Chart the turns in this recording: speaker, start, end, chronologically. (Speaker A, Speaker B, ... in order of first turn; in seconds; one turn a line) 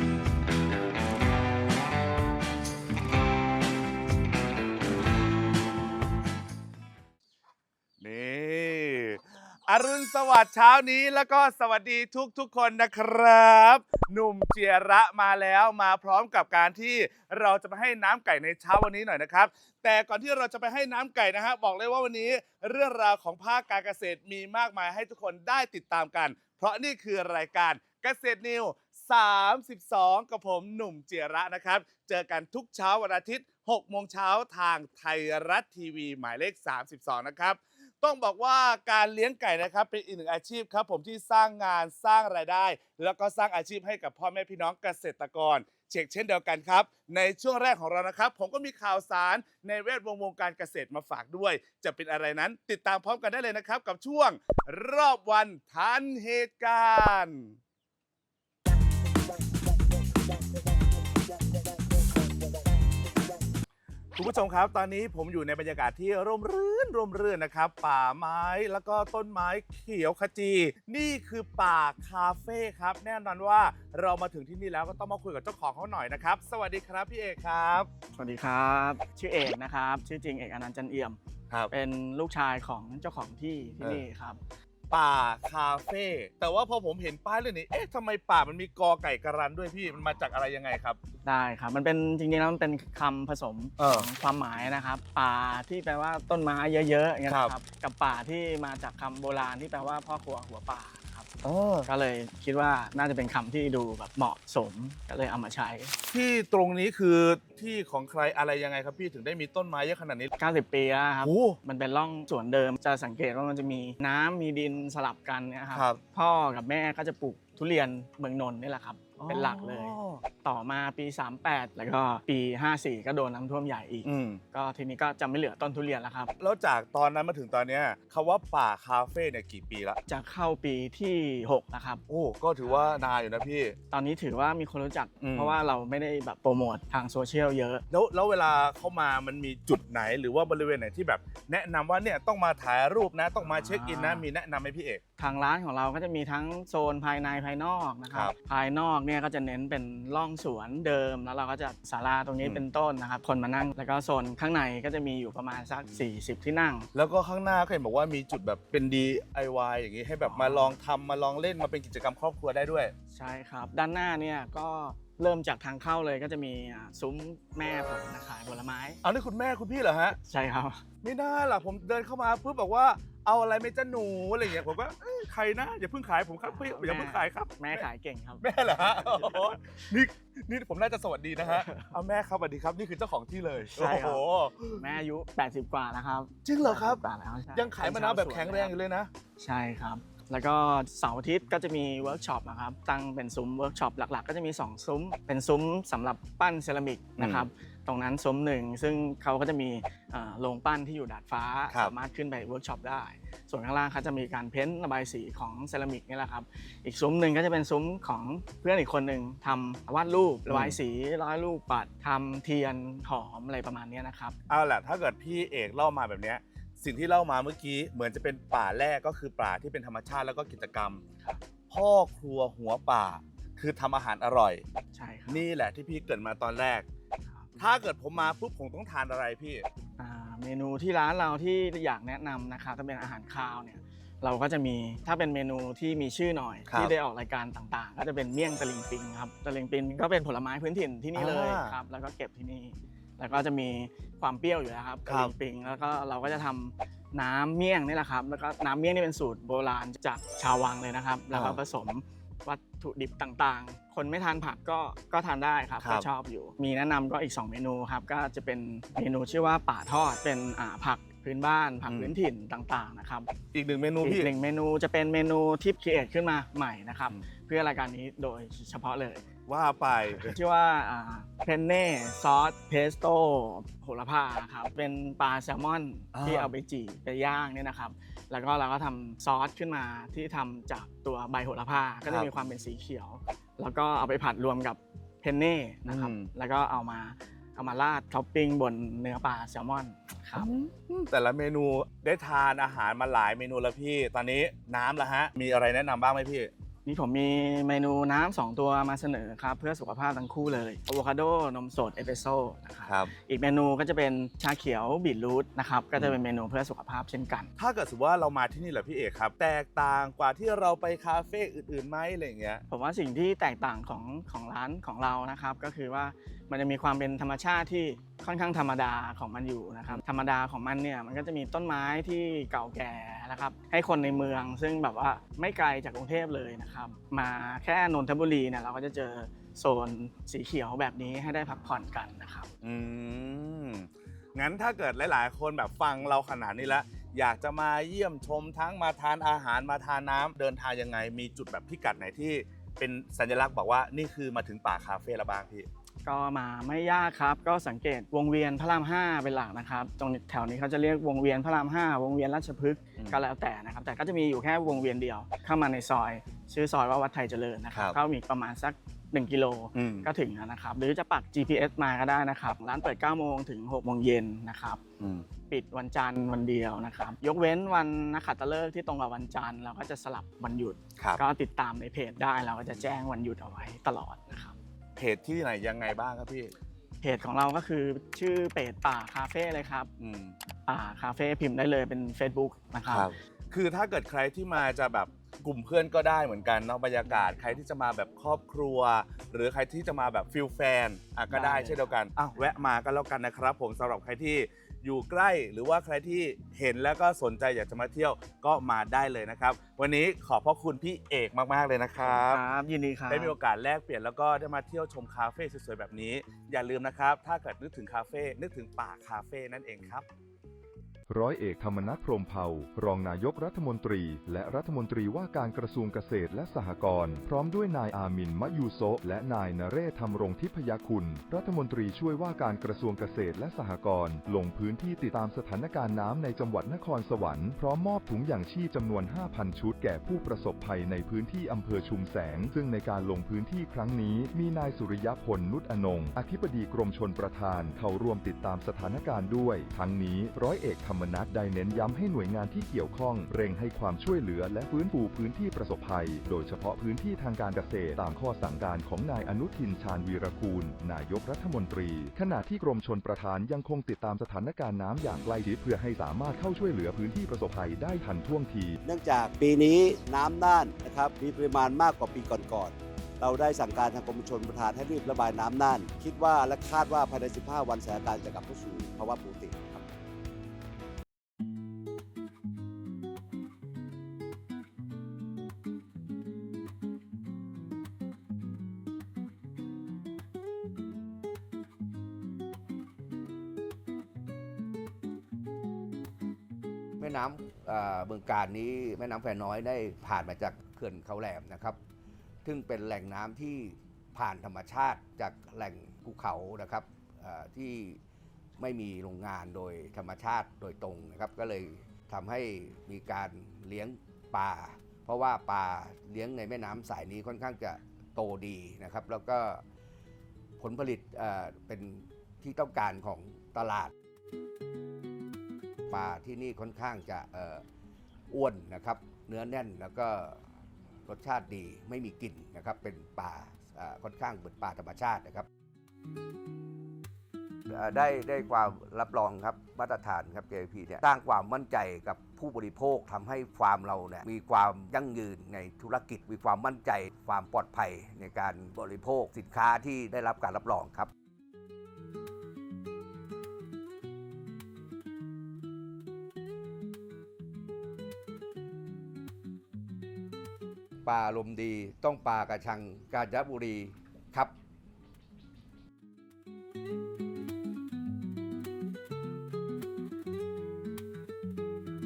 Speaker A: 8.0-57.5
Speaker A: 64.2-77.9
Speaker B: 78.2-81.2
Speaker B: 81.7-84.4
Speaker A: 84.9-91.0
Speaker B: 91.2-101.3
Speaker A: 93.8-94.1
Speaker A: 97.3-97.5
Speaker A: 101.4-101.9
Speaker B: 101.8-105.9
Speaker A: 106.1-110.3
Speaker B: 110.4-126.3
Speaker A: 111.2-111.6
Speaker A: 115.7-116.0
Speaker A: 119.2-120.2
Speaker A: 124.0-124.4
Speaker A: 126.4-130.0
Speaker B: 130.1-132.0
Speaker A: 132.1-133.7
Speaker B: 132.6-132.9
Speaker B: 133.9-137.8
Speaker A: 135.2-135.6
Speaker A: 137.9-145.0
Speaker B: 143.4-144.2
Speaker B: 145.2-156.9
Speaker A: 156.9-162.9
Speaker B: 160.2-160.7
Speaker B: 163.1-169.0
Speaker A: 169.0-170.2
Speaker B: 170.2-170.8
Speaker A: 171.0-177.9
Speaker B: 176.4-179.8
Speaker A: 178.4-184.8
Speaker B: 181.4-181.9
Speaker B: 183.7-184.2
Speaker B: 184.8-188.7
Speaker A: 186.4-189.1
Speaker B: 189.4-214.3
Speaker A: 197.2-197.5
Speaker A: 210.5-210.8
Speaker A: 214.5-221.0
Speaker A: 221.7-224.6
Speaker B: 224.9-225.4
Speaker A: 225.3-226.8
Speaker B: 227.2-227.6
Speaker A: 227.6-229.7
Speaker B: 230.0-263.3
Speaker A: 236.7-236.9
Speaker A: 241.1-241.7
Speaker A: 245.1-245.3
Speaker A: 251.3-251.6
Speaker A: 255.8-256.1
Speaker A: 261.9-262.1
Speaker A: 263.5-264.3
Speaker B: 264.0-269.2
Speaker A: 269.5-270.4
Speaker B: 270.1-290.5
Speaker A: 276.1-276.5
Speaker A: 282.1-282.5
Speaker A: 285.9-286.3
Speaker A: 290.3-296.5
Speaker B: 296.8-307.5
Speaker A: 302.8-303.1
Speaker A: 307.6-312.6
Speaker B: 312.7-332.5
Speaker A: 332.6-345.7
Speaker B: 346.0-364.8
Speaker A: 359.7-360.1
Speaker B: 365.5-374.6
Speaker A: 375.0-376.5
Speaker B: 377.0-379.9
Speaker A: 380.0-380.3
Speaker B: 380.6-383.1
Speaker A: 382.9-402.4
Speaker B: 391.3-391.8
Speaker B: 402.0-403.4
Speaker A: 403.1-410.0
Speaker C: 411.1-458.8
Speaker D: 458.8-469.8
Speaker E: 487.0-491.8
Speaker E: 492.4-498.0
Speaker E: 498.6-509.6
Speaker E: 510.6-513.9
Speaker E: 515.9-517.6
Speaker E: 518.3-520.4
Speaker E: 521.0-525.5
Speaker E: 527.7-541.1
Speaker E: 551.0-554.5